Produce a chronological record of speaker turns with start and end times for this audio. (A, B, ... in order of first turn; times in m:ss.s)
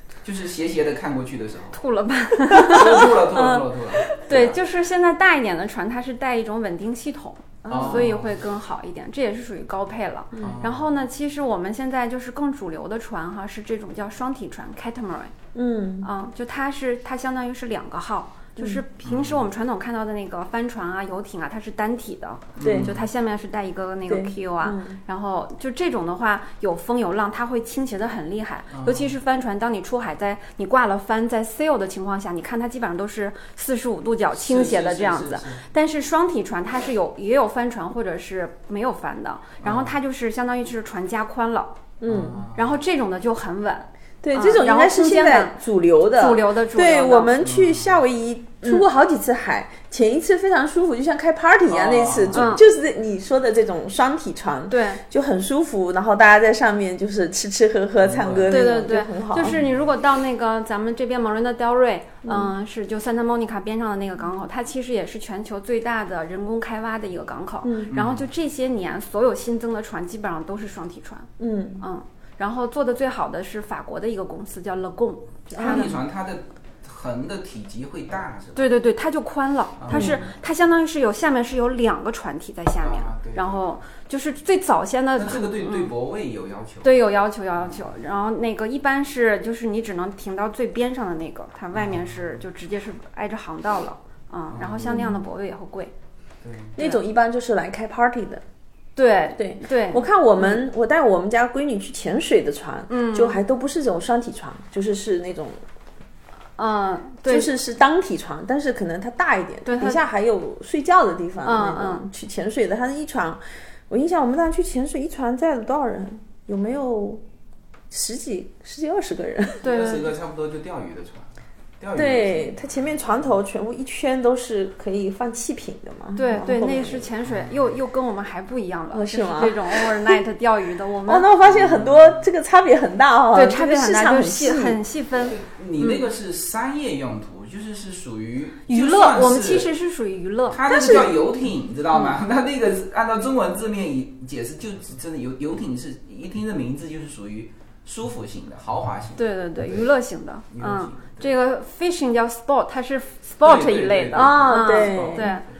0:00.2-0:01.8 A
0:01.7-0:03.1 B
0:02.7-0:04.6 A
0:02.8-0:04.1 C
0:04.2-0:15.3 B
0:07.6-0:08.1 C
0:07.7-0:08.4 A
0:10.4-0:10.9 A
0:15.5-0:16.1 C
0:16.0-0:41.8 B
0:19.0-0:19.4 A
0:22.6-0:23.0 A
0:22.6-0:22.9 C
0:24.1-0:25.0 C
0:28.7-0:29.1 A
0:34.3-0:35.6 A
0:39.6-0:39.9 A
0:42.0-0:42.4 C
0:42.0-0:42.8 A
0:42.6-0:45.6 B
0:44.2-0:59.6 C
0:46.1-0:47.4 B
0:47.4-0:48.0 A
0:51.7-0:52.5 A
0:52.3-0:52.6 B
0:54.7-0:55.0 B
0:58.0-0:58.7 A
0:58.5-1:11.3 B
1:02.2-1:02.5 C
1:07.6-1:07.9 C
1:07.9-1:08.3 A
1:11.4-1:11.8 C
1:11.8-1:16.0 B
1:15.5-1:15.9 C
1:15.6-1:18.7 A
1:18.6-1:25.9 B
1:19.8-1:20.3 A
1:19.9-1:20.2 C
1:22.8-1:23.7 A
1:25.2-1:27.0 A
1:26.8-1:35.9 B
1:27.6-1:27.9 A
1:31.7-1:32.4 A
1:34.5-1:35.1 A
1:34.9-1:35.2 C
1:36.4-1:36.8 A
1:36.8-1:38.4 C
1:39.0-1:40.6 B
1:39.4-1:45.6 C
1:42.9-1:43.4 B
1:46.6-1:47.5 B
1:47.2-1:57.2 C
1:49.6-1:50.0 B
1:51.4-1:52.1 B
1:57.9-1:59.6 C
1:59.6-2:00.1 B
1:59.6-2:01.3 A
2:01.8-2:02.7 A
2:02.0-2:07.1 C
2:06.2-2:11.3 B
2:08.9-2:10.2 C
2:11.1-2:14.8 C
2:11.4-2:12.2 A
2:13.3-2:16.0 B
2:15.2-2:19.7 A
2:18.7-2:20.6 B
2:20.5-2:29.9 A
2:20.7-2:21.1 C
2:29.2-2:35.5 B
2:30.5-2:31.3 A
2:33.4-2:35.4 A
2:34.1-2:35.3 C